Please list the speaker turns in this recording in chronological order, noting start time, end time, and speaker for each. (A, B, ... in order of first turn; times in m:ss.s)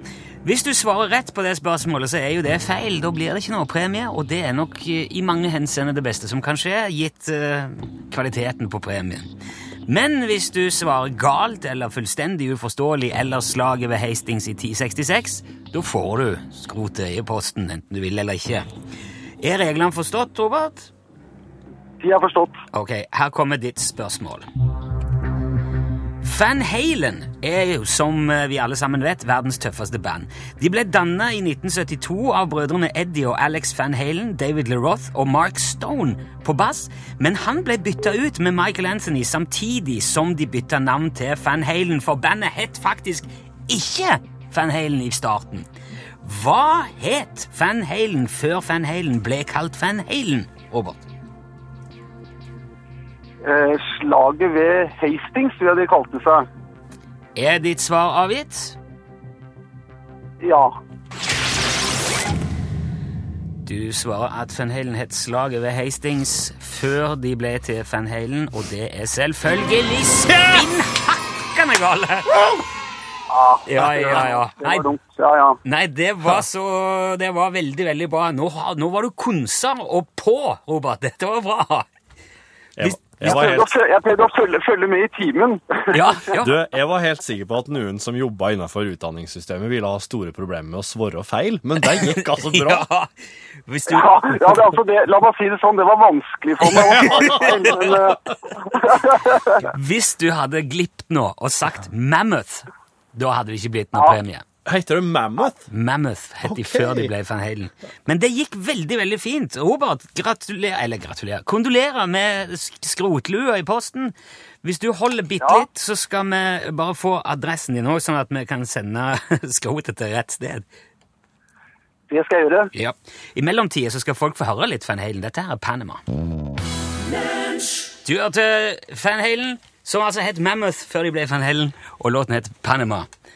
0:00.4-0:09.3 A
0:09.9-0:18.7 A
0:19.4-0:20.9 A
0:22.0-0:22.6 B
0:22.7-0:24.5 A
0:26.2-0:45.7 A
0:46.2-0:51.0 A
0:53.4-0:56.5 B
0:57.4-0:58.8 A
1:00.4-1:00.8 B
1:03.6-1:12.6 A
1:13.3-1:15.6 B
1:13.7-1:14.9 A
1:15.6-1:21.9 A
1:22.8-1:23.7 C
1:22.8-1:23.6 A
1:23.2-1:26.0 B
1:25.9-1:26.5 A
1:26.3-1:32.9 C
1:31.8-1:33.1 A
1:33.7-1:34.5 A
1:33.9-1:39.7 B
1:36.7-1:37.9 A
1:36.7-1:38.2 C
1:39.5-1:44.4 A
1:44.6-1:45.7 C
1:45.7-2:00.7 A
1:46.4-1:47.1 C
2:02.1-2:02.7 B
2:02.7-2:06.0 A
2:08.0-2:13.1 A